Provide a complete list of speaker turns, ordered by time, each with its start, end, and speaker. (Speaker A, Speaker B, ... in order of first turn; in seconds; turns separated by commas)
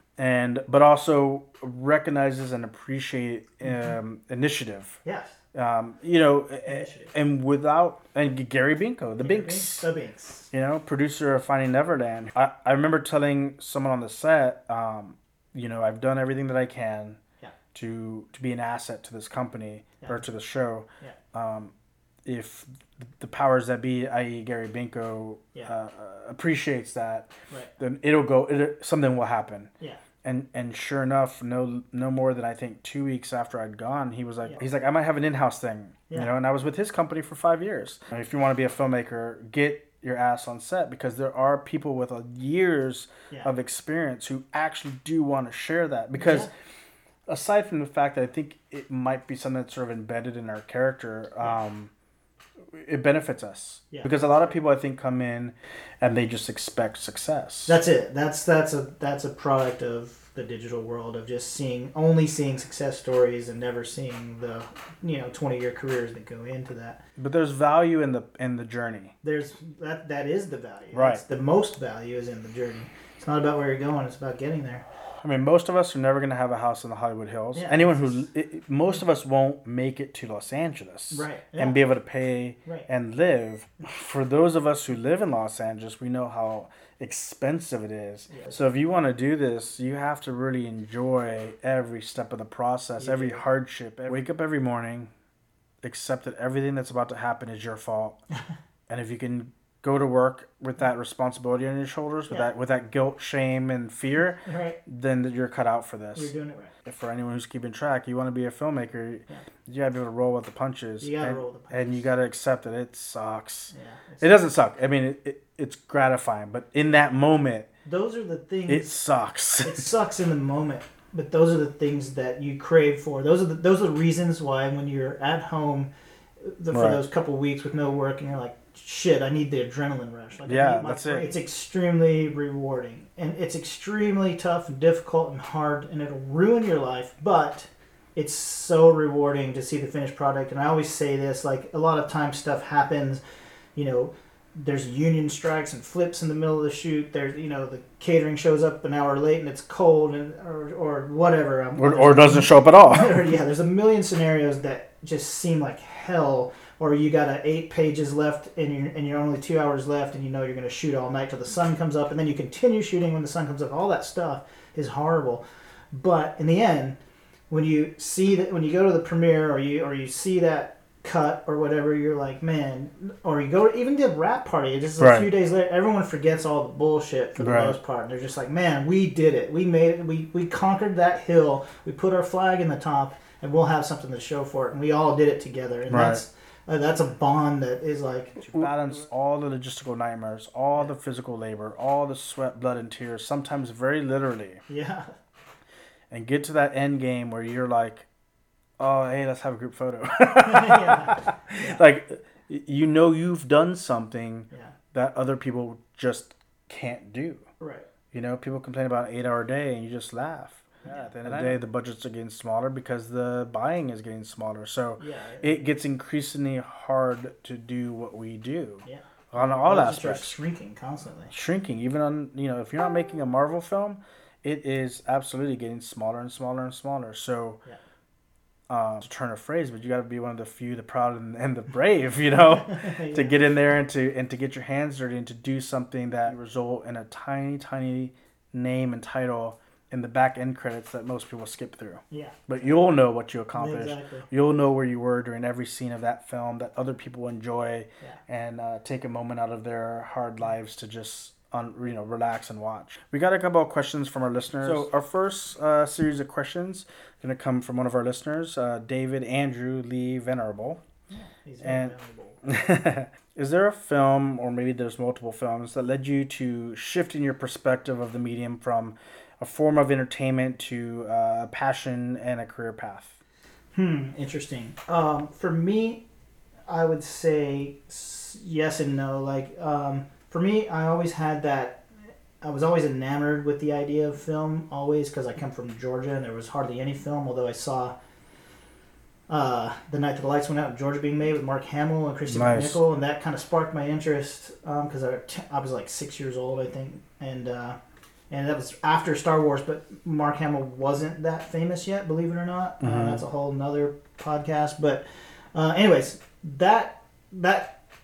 Speaker A: 0.2-5.0, Speaker B: 5.0-5.4, Speaker A: 5.5-9.9, Speaker B: 6.6-7.1, Speaker B: 9.2-10.5, Speaker A: 10.5-17.2, Speaker A: 17.7-21.7, Speaker A: 22.2-29.7, Speaker A: 30.2-46.5, Speaker B: 46.1-46.5, Speaker A: 47.3-51.9, Speaker A: 52.7-57.8, Speaker B: 53.9-54.2, Speaker B: 57.7-67.0, Speaker A: 67.2-69.1, Speaker B: 69.2-74.8, Speaker A: 70.9-71.2, Speaker A: 75.2-95.1, Speaker B: 77.5-78.1, Speaker B: 81.1-81.8, Speaker B: 93.0-93.4, Speaker A: 95.8-98.2, Speaker A: 98.9-106.3, Speaker B: 104.4-104.8, Speaker B: 106.2-106.7, Speaker A: 106.8-117.7, Speaker B: 111.0-111.9, Speaker B: 113.7-114.4, Speaker B: 117.8-118.9, Speaker A: 118.7-119.9, Speaker B: 119.6-125.9, Speaker B: 126.4-143.2, Speaker A: 126.7-127.0, Speaker A: 130.4-131.3, Speaker B: 143.8-167.0, Speaker A: 151.8-153.2, Speaker B: 167.5-188.5, Speaker A: 175.0-175.3, Speaker A: 177.4-177.8, Speaker A: 185.9-186.2, Speaker A: 188.4-194.6, Speaker B: 194.7-195.1, Speaker A: 196.1-198.1, Speaker A: 198.8-207.4, Speaker B: 200.4-201.8, Speaker B: 207.6-207.8, Speaker A: 208.1-220.4, Speaker B: 210.8-211.6, Speaker B: 215.0-215.5, Speaker B: 218.8-221.3, Speaker A: 221.3-227.6, Speaker A: 228.7-260.8, Speaker B: 232.6-233.3, Speaker B: 242.1-242.5, Speaker B: 243.5-244.3, Speaker B: 261.1-262.4, Speaker A: 261.6-273.2, Speaker B: 273.7-276.0, Speaker B: 276.7-281.9, Speaker B: 282.4-287.9, Speaker B: 289.3-297.8, Speaker A: 292.3-292.8, Speaker B: 298.3-307.8, Speaker A: 302.8-303.2